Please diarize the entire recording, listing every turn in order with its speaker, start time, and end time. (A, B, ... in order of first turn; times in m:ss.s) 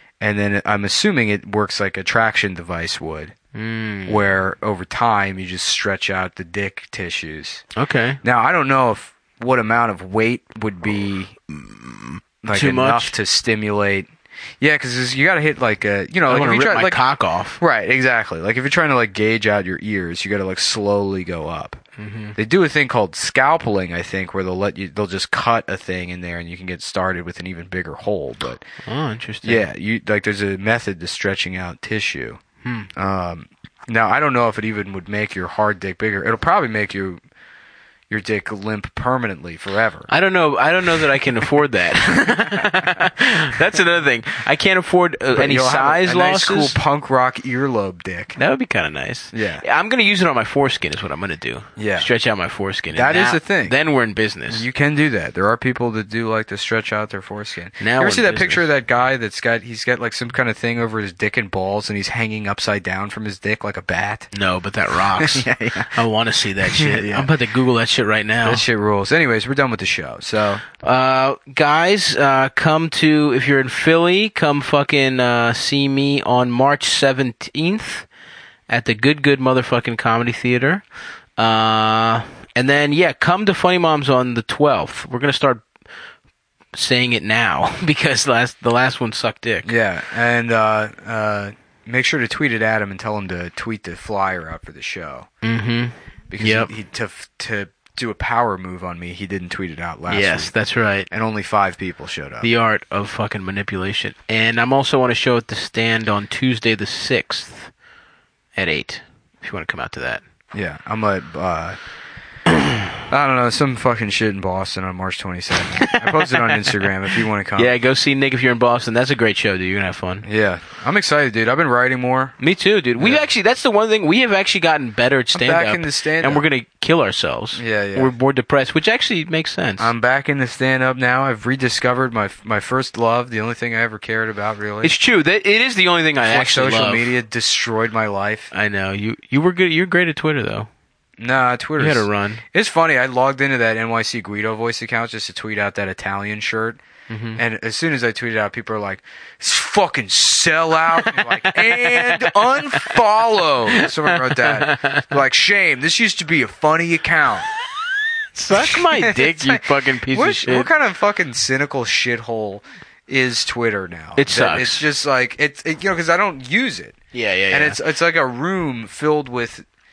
0:00.2-0:03.3 A
0:03.5-0:04.2 B
0:04.1-0:07.6 A
0:07.7-0:08.2 B
0:08.2-0:11.3 A
0:11.5-0:13.1 B
0:12.4-0:17.0 A
0:16.3-0:17.6 B
0:17.6-0:21.8 A
0:22.0-0:22.4 B
0:22.3-0:28.6 A
0:28.8-0:29.6 B
0:29.4-0:32.4 A
0:32.6-0:32.9 B
0:32.9-0:37.2 A
0:38.1-0:40.1 A
0:40.1-0:46.8 B
0:42.6-0:43.0 A
0:45.3-0:48.4 A
0:48.4-0:54.6 B
0:49.3-0:49.6 A
0:51.8-0:52.1 A
0:52.9-0:53.7 A
0:54.5-1:04.3 A
0:57.8-0:58.7 B
1:04.3-1:08.6 B
1:04.9-1:05.9 A
1:06.6-1:07.3 A
1:08.4-1:10.6 A
1:10.8-1:18.1 B
1:18.7-1:20.8 B
1:21.4-1:25.7 B
1:26.7-1:29.7 B
1:29.6-1:35.3 A
1:35.4-1:36.7 B
1:36.3-1:40.5 A
1:40.1-1:41.1 B
1:41.1-1:42.5 A
1:42.4-1:47.7 B
1:48.5-1:50.2 B
1:50.5-1:51.8 A
1:52.5-1:52.8 B
1:53.1-1:57.7 A
1:55.7-2:00.2 B
2:00.2-2:02.3 A
2:02.4-2:09.9 B
2:03.0-2:03.2 A
2:05.3-2:06.4 A
2:07.6-2:08.1 A
2:09.8-2:14.9 A
2:14.8-2:17.2 B
2:16.2-2:18.5 A
2:18.5-2:20.7 B
2:21.2-2:26.8 A
2:21.8-2:22.4 B
2:27.1-2:27.4 B
2:27.4-2:37.5 A
2:31.8-2:32.2 B
2:33.7-2:35.0 B
2:38.3-2:40.7 B
2:38.5-2:47.0 A
2:44.2-2:44.8 B
2:47.1-2:47.8 B
2:47.5-2:49.6 A